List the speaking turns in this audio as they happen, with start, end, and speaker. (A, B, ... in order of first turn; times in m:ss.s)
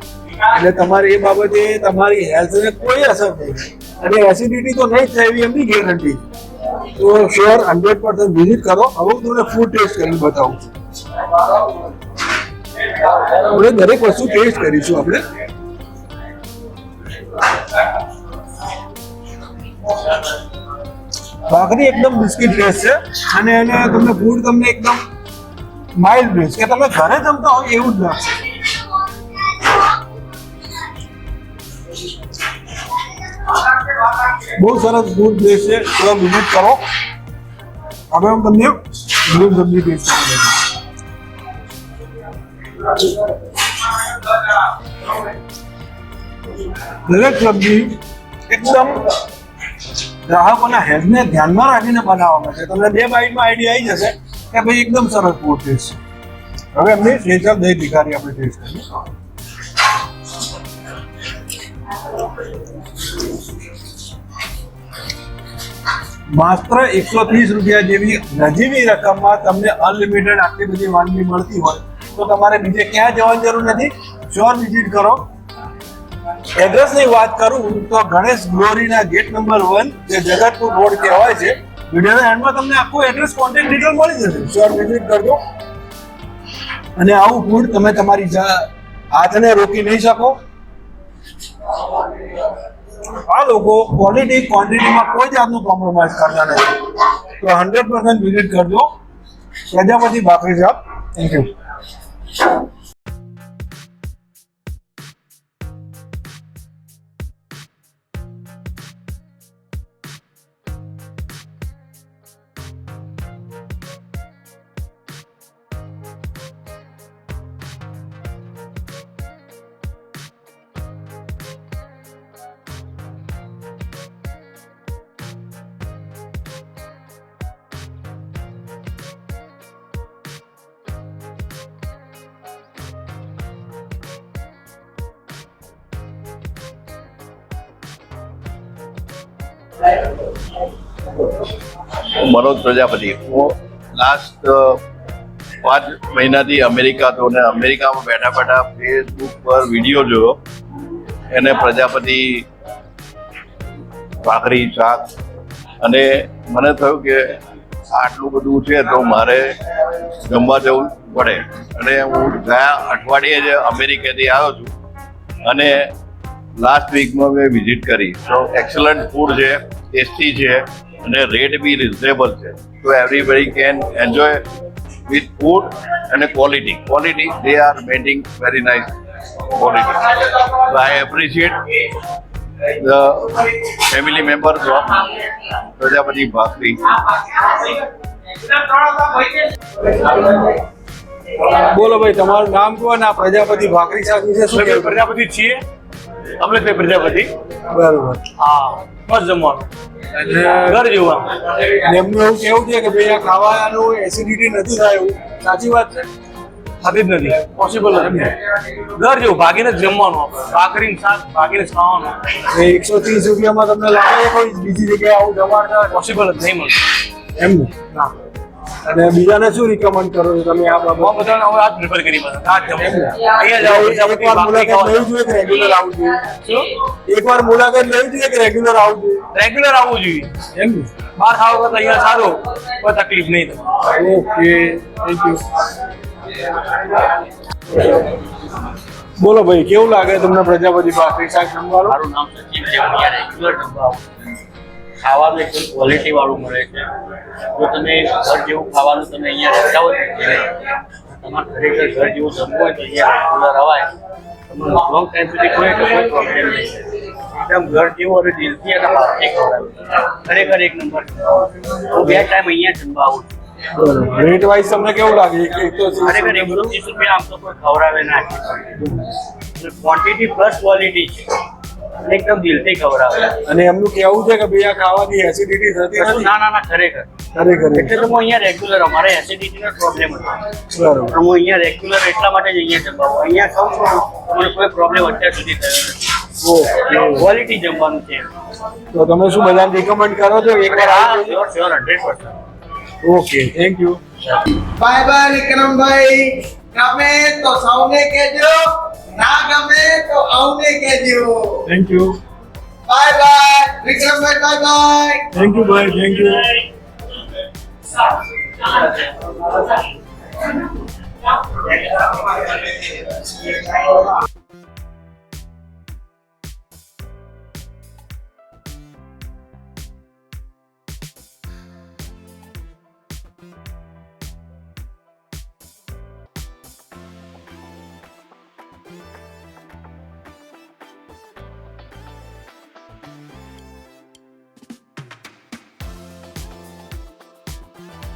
0:00.5-0:06.2 A
0:07.0-0:10.7 A
0:13.3-0:15.2 A
0:21.5-0:25.0 A
0:26.0-0:28.3 A
0:34.4-0:36.8 A
0:38.1-0:40.6 A
0:47.0-0:49.1 A
0:50.2-0:56.0 A
0:56.7-0:58.8 A
1:06.3-1:15.3 A
1:16.6-1:25.4 A
1:27.0-1:30.4 A
1:33.3-1:36.8 A
1:37.4-1:38.9 A
1:39.7-1:41.5 A
2:22.2-2:24.8 B
2:25.6-2:30.4 B
2:31.3-2:32.4 B
2:34.2-2:35.1 B
2:35.8-2:37.4 B
2:37.9-2:39.6 B
2:40.2-2:44.7 B
2:45.4-2:45.9 B
2:46.6-2:54.4 B
2:55.1-2:58.9 B
2:59.5-3:01.6 B
3:02.8-3:07.0 B
3:11.5-3:15.0 A
3:14.5-3:15.6 C
3:16.4-3:17.3 C
3:17.7-3:18.2 A
3:18.4-3:19.7 C
3:20.2-3:20.8 A
3:20.6-3:21.3 C
3:21.7-3:26.0 A
3:26.8-3:32.2 C
3:32.5-3:36.0 A
3:35.9-3:36.8 C
3:37.3-3:37.9 A
3:38.8-3:41.2 A
3:41.0-3:45.0 C
3:42.9-3:46.4 A
3:47.0-3:49.2 A
3:49.3-3:50.3 C
3:50.5-3:50.9 A
3:51.2-3:53.6 C
3:53.9-3:55.4 A
3:59.2-4:02.0 A
4:01.8-4:04.0 D
4:05.0-4:06.9 D
4:07.5-4:10.6 D
4:11.2-4:13.9 D
4:14.5-4:23.3 D
4:23.7-4:26.7 A
4:26.0-4:28.8 D
4:29.5-4:31.3 D
4:32.0-4:33.3 D
4:33.4-4:36.3 A
4:35.9-4:37.1 D
4:37.3-4:38.0 A
4:37.7-4:40.4 D
4:40.7-4:41.1 A
4:41.1-4:46.1 D
4:46.4-4:47.3 A
4:46.8-4:48.3 D
4:48.9-4:51.4 A
4:50.7-4:52.4 D
4:53.0-4:54.0 A
4:54.6-5:01.6 E
5:01.6-5:02.2 A
5:02.9-5:05.3 E
5:05.3-5:06.7 A